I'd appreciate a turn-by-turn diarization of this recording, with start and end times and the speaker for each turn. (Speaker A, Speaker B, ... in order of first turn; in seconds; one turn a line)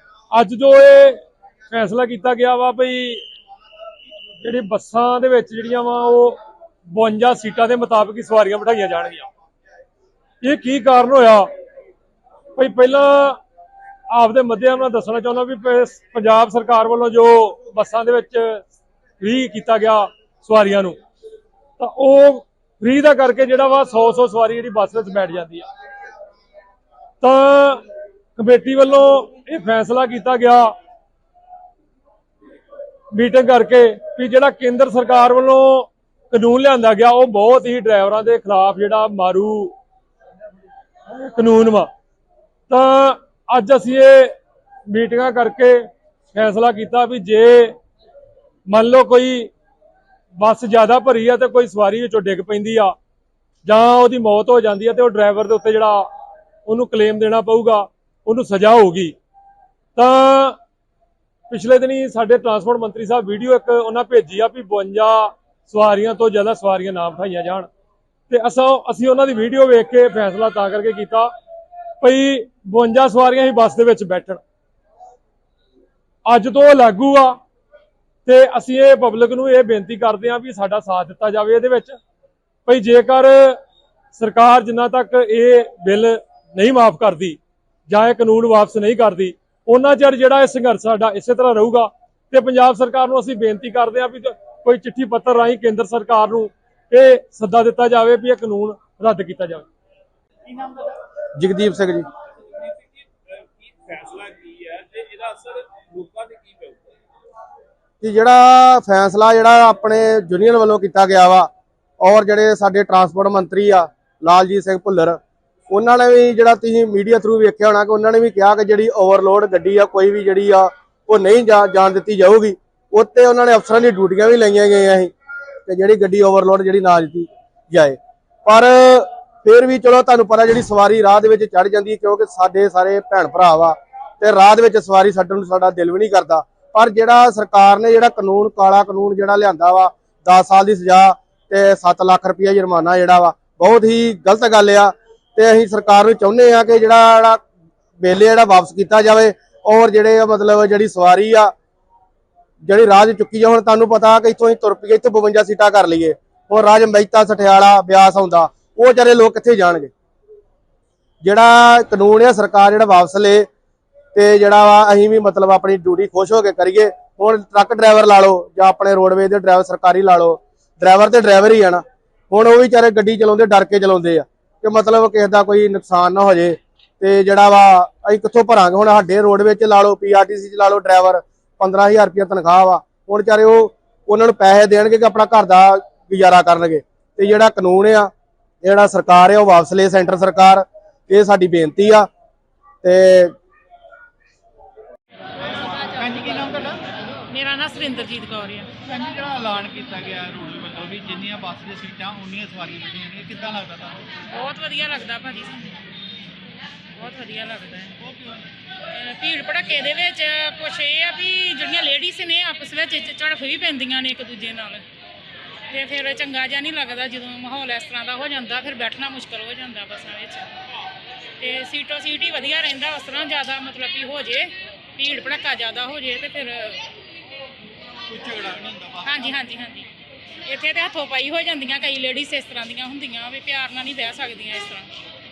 Speaker A: 0.3-3.2
Speaker A: 4.4-6.4
Speaker A: 6.9-9.3
Speaker A: 10.4-11.5
Speaker A: 12.6-13.4
Speaker A: 14.1-18.7
Speaker A: 19.2-21.0
Speaker A: 21.8-25.7
Speaker A: 27.2-30.7
Speaker A: 33.1-39.8
Speaker A: 41.1-41.9
Speaker A: 42.7-44.3
Speaker A: 44.9-47.8
Speaker A: 48.7-49.5
Speaker A: 50.4-53.0
Speaker A: 53.6-56.1
Speaker A: 56.7-59.1
Speaker A: 60.0-60.6
Speaker A: 61.5-67.7
Speaker A: 68.3-71.3
Speaker A: 72.0-74.4
Speaker A: 76.3-77.4
Speaker A: 78.2-82.0
Speaker A: 82.7-83.6
Speaker A: 84.1-99.7
Speaker B: 101.4-102.1
Speaker C: 103.8-106.8
Speaker B: 108.0-111.5
Speaker B: 112.0-125.1
Speaker B: 125.7-147.4
Speaker B: 148.0-151.5
Speaker B: 152.7-159.9
Speaker B: 161.2-163.5
Speaker B: 164.1-188.1
Speaker B: 188.6-192.1
Speaker B: 192.8-193.3
Speaker D: 195.4-196.9
Speaker E: 197.3-198.7
Speaker D: 198.8-204.2
Speaker E: 204.3-205.8
Speaker E: 206.9-208.0
Speaker D: 208.0-208.5
Speaker E: 208.9-214.8
Speaker E: 215.7-220.5
Speaker E: 221.4-226.8
Speaker D: 228.1-229.3
Speaker E: 229.0-229.9
Speaker E: 230.4-234.9